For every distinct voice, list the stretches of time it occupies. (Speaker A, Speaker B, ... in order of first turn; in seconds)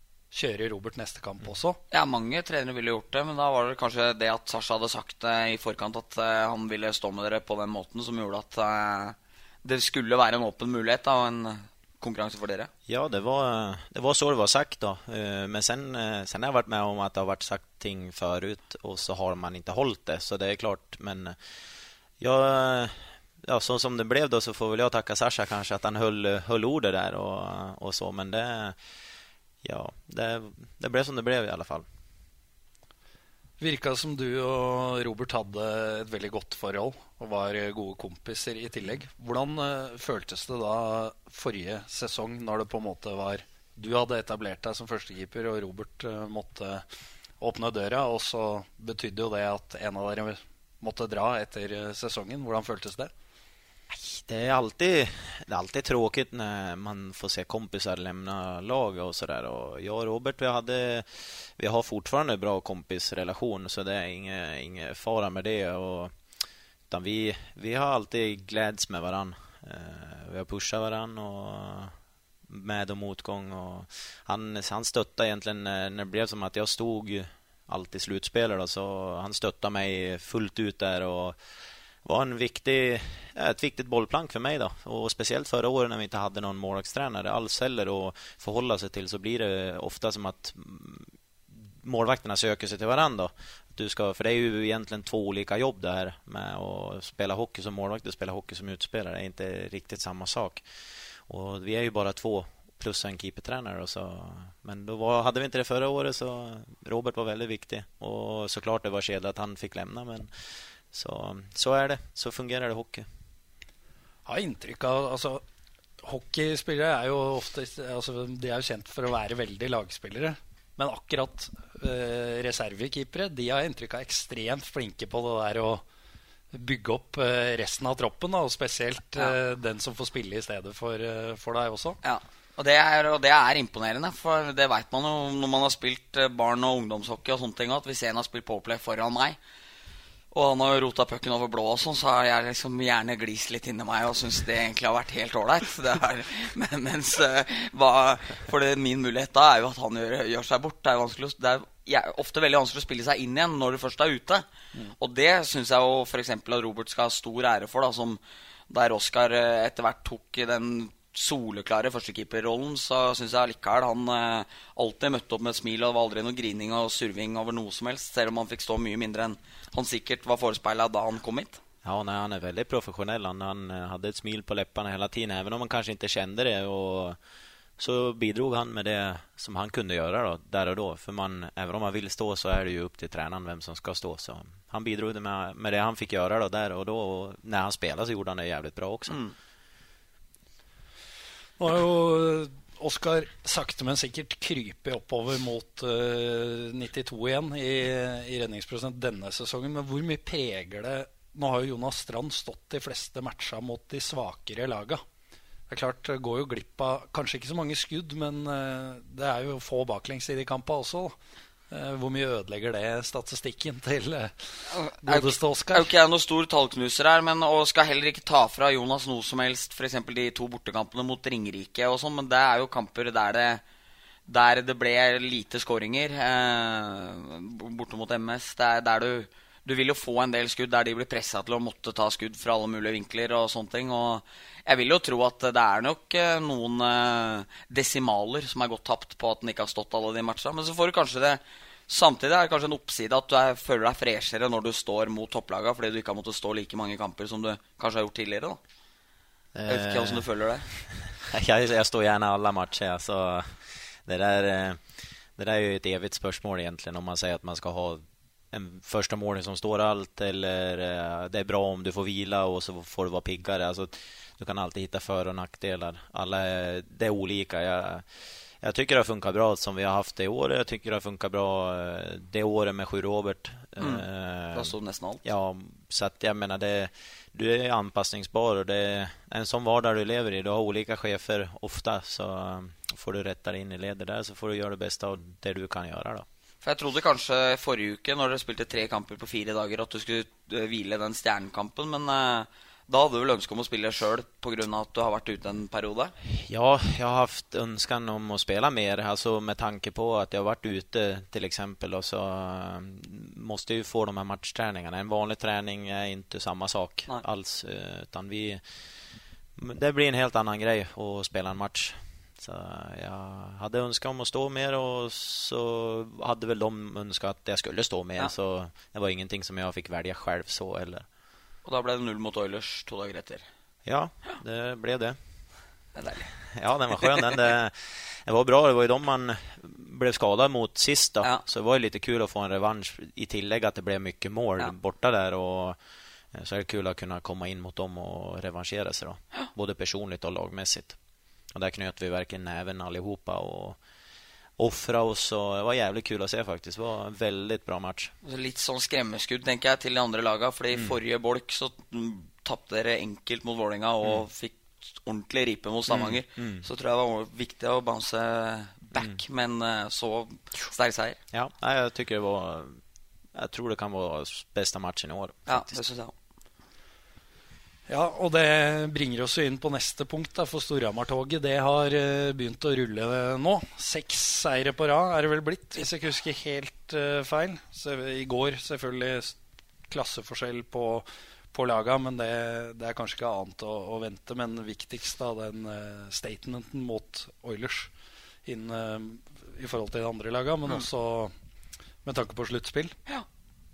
Speaker A: 0.3-1.8, 33.6-46.8, 47.4-53.1, 114.3-115.4, 116.0-125.8, 126.5-132.0, 191.6-205.0, 205.7-211.1, 211.7-214.3, 215.0-215.9, 367.9-379.4, 379.9-387.9, 388.4-391.3, 392.0-392.9
Speaker B: 1.9-12.7, 132.0-139.4, 140.3-154.4, 155.0-171.6, 189.1-189.3, 214.7-223.6, 224.3-248.6, 249.7-250.7, 273.8-275.2, 286.6-296.1, 321.6-323.4, 325.9-326.3, 348.2-361.2, 365.5-366.1
Speaker C: 12.9-21.4, 22.2-28.8, 29.6-31.9, 53.9-66.1, 66.9-71.9, 72.5-81.4, 82.0-91.1, 91.7-100.6, 101.3-110.3, 110.9-113.0, 171.8-177.2, 177.8-189.2, 249.5-250.2, 250.9-254.8, 255.3-268.1, 268.6-274.7, 275.2-286.2, 296.2-308.6, 309.6-321.0, 323.9-325.2, 326.5-335.8, 336.3-341.0, 341.5-343.8, 344.6-348.1, 355.9-356.6, 361.3-362.8, 363.3-365.8